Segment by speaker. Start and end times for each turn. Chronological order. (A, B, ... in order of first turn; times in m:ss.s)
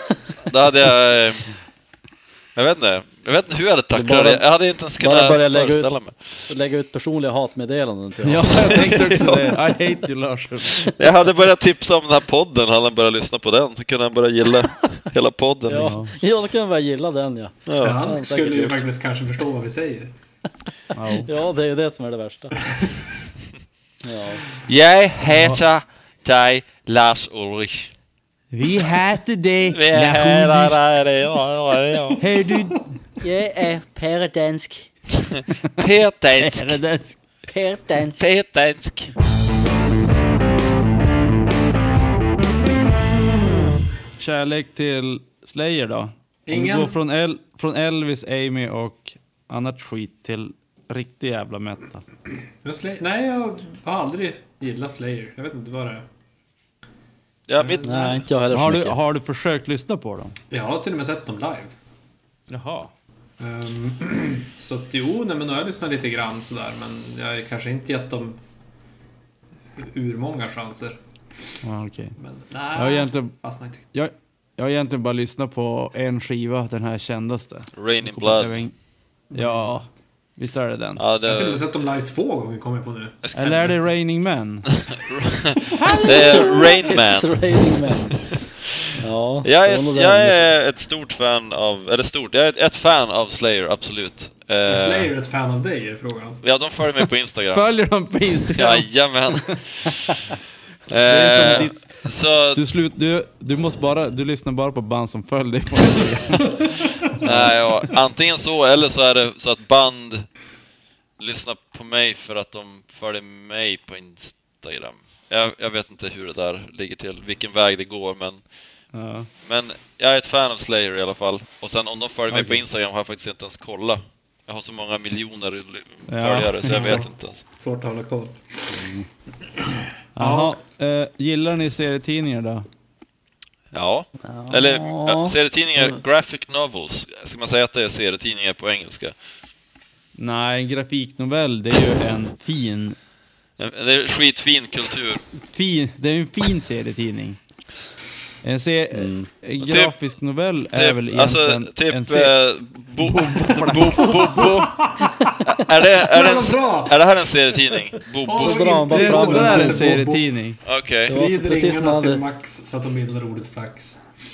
0:00.4-0:01.5 A
0:02.6-0:06.4 A
0:03.9-0:04.4 B
0:05.0-0:05.9 B
0:06.5-0:08.8 B
0:08.2-0:10.9 C
0:08.7-0:09.5 A
0:10.9-0:15.9 A
0:15.7-0:18.8 B
0:15.8-0:16.1 C
0:17.7-0:18.0 A
0:17.8-0:20.1 D
0:20.9-0:21.3 C
0:21.2-0:22.6 B
0:24.0-0:24.4 B
0:24.7-0:27.9 A
0:25.3-0:25.6 C
0:28.5-0:30.8 C
0:29.7-0:32.2 A
0:32.2-0:32.9 C
0:33.2-0:34.9 E
0:35.2-0:36.8 A
0:36.4-0:37.2 C
0:37.5-0:38.2 E
0:38.2-0:39.1 A
0:44.2-0:52.0 C
0:46.5-0:47.0 D
0:52.6-0:56.0 D
0:57.5-0:58.2 A
0:57.6-0:58.2 D
0:57.8-0:59.0 B
0:58.5-1:00.4 C
1:00.5-1:01.7 D
1:02.5-1:02.9 C
1:03.4-1:08.4 D
1:09.8-1:11.0 D
1:11.6-1:12.2 C
1:12.2-1:13.9 D
1:12.8-1:13.3 C
1:13.9-1:18.7 C
1:17.8-1:18.6 A
1:19.3-1:21.0 C
1:19.3-1:19.7 D
1:21.0-1:21.6 A
1:21.2-1:23.2 D
1:23.2-1:23.7 A
1:23.3-1:24.7 C
1:24.7-1:27.4 A
1:25.8-1:26.4 C
1:25.9-1:28.3 B
1:29.0-1:30.5 B
1:29.4-1:35.1 A
1:34.7-1:36.4 D
1:36.4-1:37.7 A
1:37.5-1:39.6 C
1:38.6-1:39.9 A
1:40.9-1:42.6 A
1:41.0-1:47.7 C
1:47.2-1:50.3 A
1:51.2-1:58.4 A
1:58.9-1:59.3 C
1:59.4-2:07.4 A
2:02.3-2:02.6 C
2:06.1-2:07.0 C
2:06.7-2:08.8 D
2:08.7-2:09.1 B
2:09.6-2:10.6 D
2:10.2-2:12.7 C
2:13.7-2:19.1 A
2:14.2-2:15.4 B
2:20.2-2:23.0 C
2:23.6-2:25.2 A
2:25.4-2:27.4 C
2:28.4-2:32.3 C
2:28.9-2:29.3 B
2:29.6-2:29.9 A
2:30.7-2:34.9 A
2:33.0-2:34.5 C
2:34.2-2:37.0 D
2:35.4-2:38.9 A
2:38.2-2:40.2 D
2:38.4-2:40.1 B
2:38.9-2:40.6 C
2:40.6-2:41.2 A
2:41.1-2:42.2 B
2:41.1-2:44.0 D